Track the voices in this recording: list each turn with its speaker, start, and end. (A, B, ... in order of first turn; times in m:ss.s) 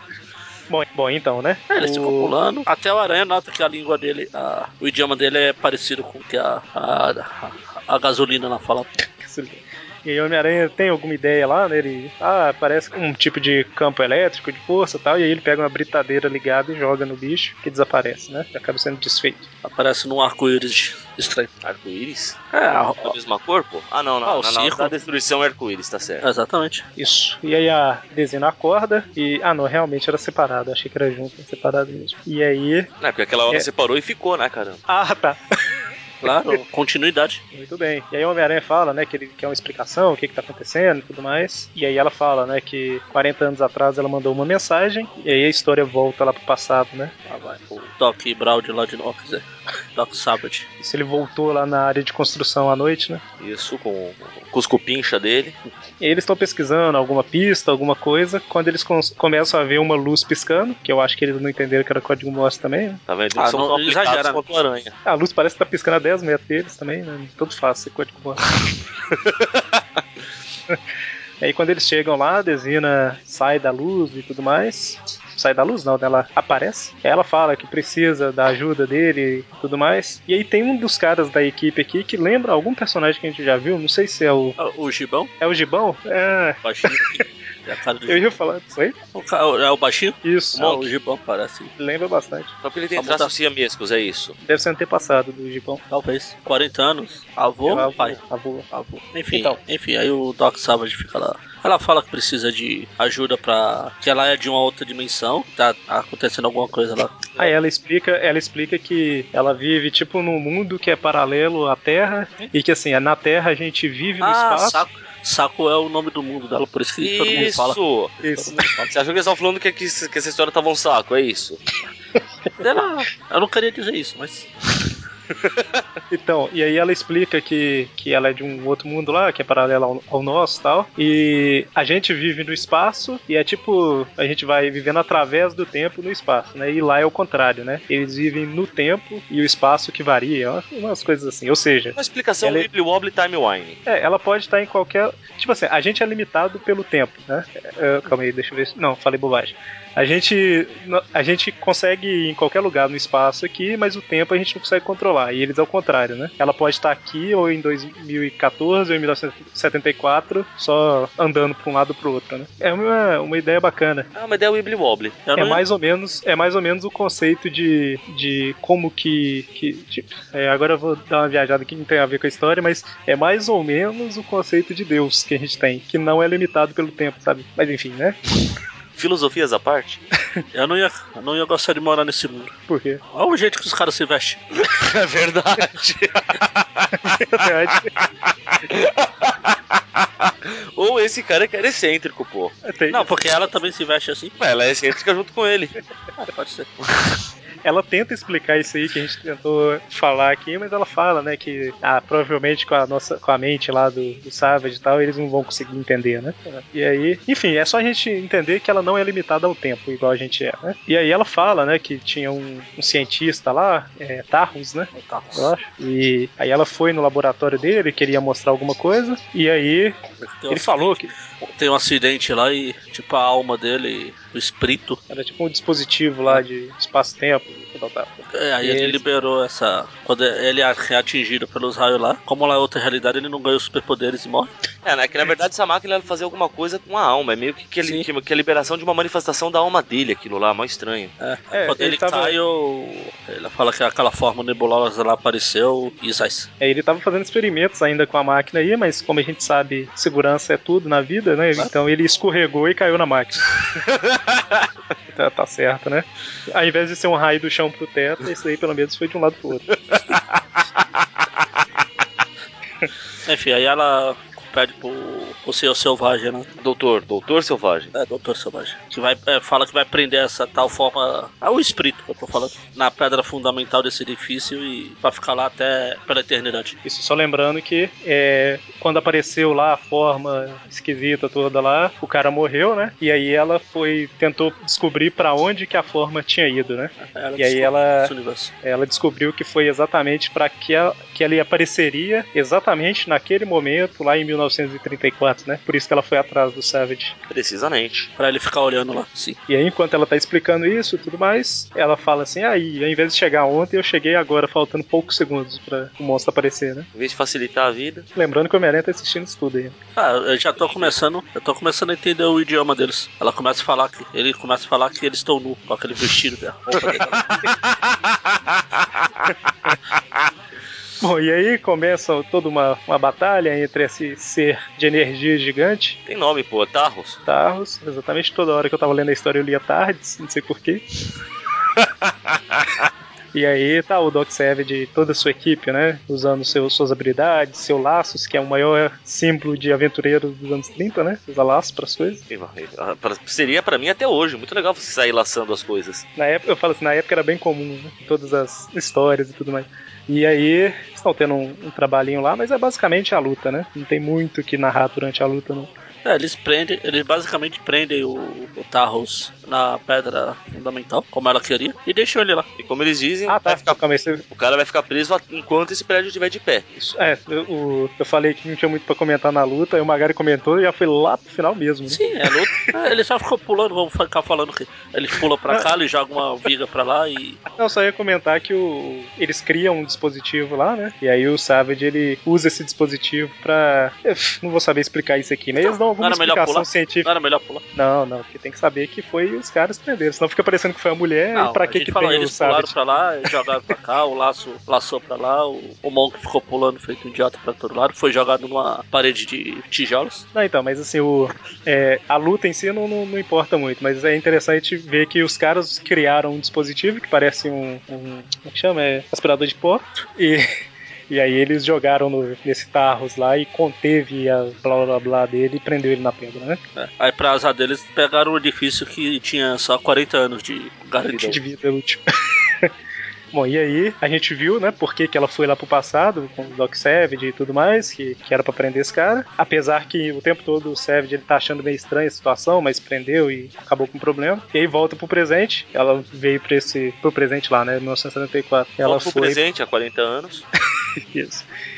0:00.7-0:02.3 A
0:01.7-0:08.9 B
0:09.2-0:19.5 A
0:19.6-0:21.5 B
0:21.6-0:22.4 C
0:22.5-0:23.2 B
0:23.0-0:26.2 C
0:24.2-0:24.9 B
0:26.2-0:26.8 B
0:27.0-0:32.9 A
0:33.0-0:34.8 C
0:34.9-0:35.4 A
0:36.2-0:37.4 B
0:36.2-0:36.6 A
0:37.5-0:47.1 A
0:47.3-0:50.7 B
0:50.8-0:53.2 A
0:53.4-0:55.6 C
0:56.0-1:03.0 A
1:03.1-1:04.9 C
1:03.4-1:04.4 B
1:05.0-1:08.4 A
1:09.2-1:09.6 C
1:11.4-1:24.6 A
1:24.6-1:25.3 B
1:25.4-1:27.2 A
1:26.6-1:28.3 B
1:28.1-1:29.0 A
1:29.1-1:31.7 B
1:30.2-1:30.7 A
1:30.5-1:30.9 C
1:31.8-1:32.5 A
1:32.6-1:34.4 C
1:32.9-1:33.3 B
1:34.4-1:35.8 A
1:35.9-1:38.2 B
1:37.6-1:38.7 A
1:38.7-1:47.3 B
1:39.3-1:39.6 A
1:47.4-1:54.8 A
1:54.2-1:58.9 B
1:57.0-1:58.1 C
1:58.2-1:58.7 A
1:58.8-2:01.6 C
2:02.6-2:04.5 B
2:06.1-2:22.7 A
2:21.9-2:23.8 C
2:23.8-2:44.1 A
2:44.1-2:45.2 C
2:45.2-2:45.6 B
2:45.4-2:58.2 A
2:59.0-3:00.0 C
3:00.5-3:02.5 B
3:02.7-3:03.0 A
3:03.1-3:04.4 B
3:04.7-3:07.2 C
3:07.0-3:07.9 A
3:07.9-3:12.5 C
3:12.6-3:13.6 A
3:12.9-3:14.4 B
3:14.4-3:15.7 C
3:16.2-3:16.7 B
3:17.6-3:40.0 A
3:34.9-3:35.5 B
3:40.2-3:45.0 B
3:40.5-3:41.1 A
3:45.1-3:49.0 A
3:48.3-3:54.5 B
3:54.8-4:01.1 C
4:01.2-4:06.5 B
4:01.5-4:02.4 A
4:06.6-4:13.4 A
4:13.9-4:14.6 C
4:15.1-4:19.7 A
4:23.2-4:26.5 B
4:26.6-4:27.9 C
4:27.9-4:36.8 B
4:36.8-4:48.1 A
4:47.0-4:48.5 B
4:48.6-4:57.1 A
4:57.3-4:58.1 C
4:58.2-4:59.4 B
4:59.5-5:06.9 A
5:06.9-5:08.0 C
5:08.1-5:09.7 A
5:10.0-5:17.4 B
5:16.7-5:17.0 C
5:17.9-5:18.8 C
5:21.0-5:26.0 A
5:26.0-5:27.2 C
5:27.2-5:30.8 A
5:33.3-5:42.2 A
5:42.3-5:46.0 C
5:46.2-5:55.7 A
5:56.0-6:02.5 B
6:02.6-6:03.8 C
6:03.3-6:04.2 A
6:04.3-6:06.6 C
6:06.8-6:12.7 A
6:11.9-6:17.4 B
6:17.5-6:27.1 A
6:25.6-6:27.6 B
6:27.7-6:32.7 A
6:31.3-6:40.2 B
6:40.3-6:50.5 A
6:51.1-6:56.6 A
6:56.8-7:01.4 B
7:01.0-7:01.4 C
7:01.3-7:02.0 A
7:03.3-7:19.4 A
7:18.8-7:20.4 C
7:21.1-7:21.4 A